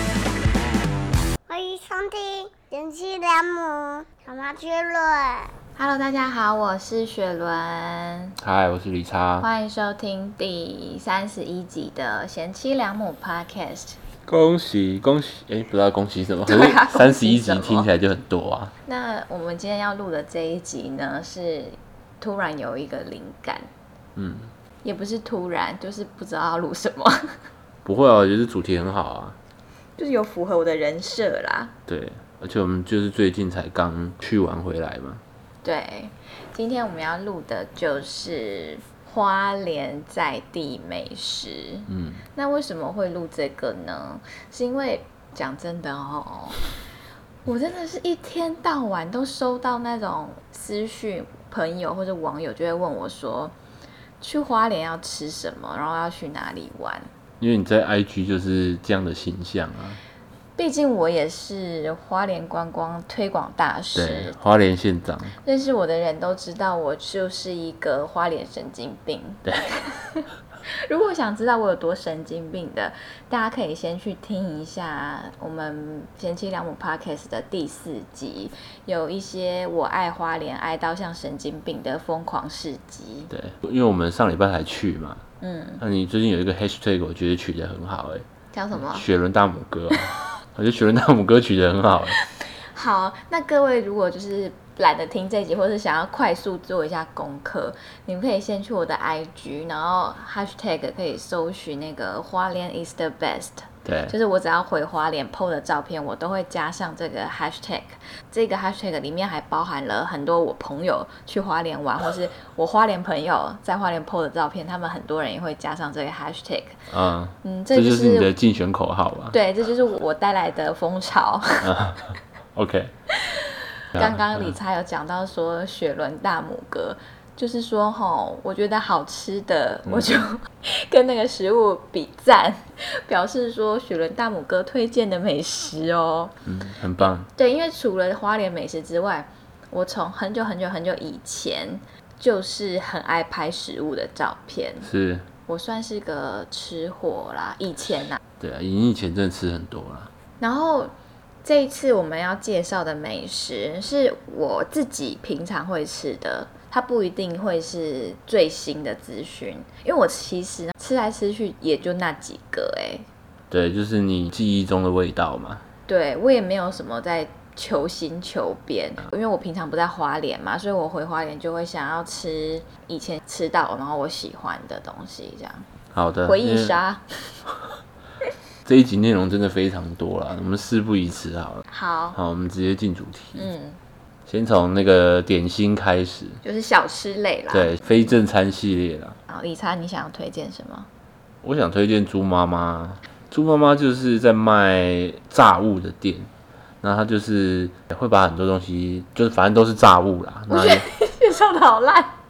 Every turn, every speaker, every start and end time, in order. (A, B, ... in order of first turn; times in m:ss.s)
0:01.5-0:05.5 A
0:05.8-0:08.3 B
0:08.4-0:09.5 C
0:09.4-0:14.0 B
0:14.2-0:18.7 C
0:16.4-0:17.9 B
0:18.8-0:23.7 B
0:24.2-0:24.5 C
0:24.8-0:27.3 B
0:27.8-0:29.4 C
0:30.0-0:31.7 B
0:31.9-0:35.2 C
0:35.6-0:46.6 B
0:41.9-0:42.2 C
0:47.4-0:53.5 B
0:54.2-0:57.1 B
0:57.4-1:00.0 C
1:00.6-1:04.3 B
1:03.9-1:05.3 C
1:05.4-1:23.3 B
1:23.3-1:25.2 C
1:25.4-1:25.8 B
1:25.8-1:32.2 C
1:28.5-1:29.0 B
1:32.2-1:56.8 B
1:43.8-1:44.1 C
1:56.9-1:59.4 C
1:57.4-1:58.3 B
1:59.3-2:01.8 B
2:01.6-2:02.0 C
2:02.5-2:02.9 C
2:03.1-2:16.3 B
2:03.9-2:04.5 C
2:16.4-2:17.3 C
2:17.2-2:24.9 B
2:24.8-2:25.3 C
2:25.5-2:28.2 B
2:28.4-2:30.1 C
2:30.4-2:30.9 B
2:31.4-2:43.1 B
2:43.5-2:45.6 C
2:45.9-2:55.6 B
2:55.9-2:56.8 C
2:56.2-2:57.0 B
2:58.6-3:01.6 C
3:01.7-3:02.2 B
3:02.1-3:03.5 C
3:03.4-3:03.8 B
3:04.3-3:06.4 C
3:06.4-3:08.1 B
3:07.5-3:09.2 C
3:09.3-3:10.9 B
3:11.4-3:16.3 C
3:16.8-3:20.8 C
3:20.5-3:22.1 B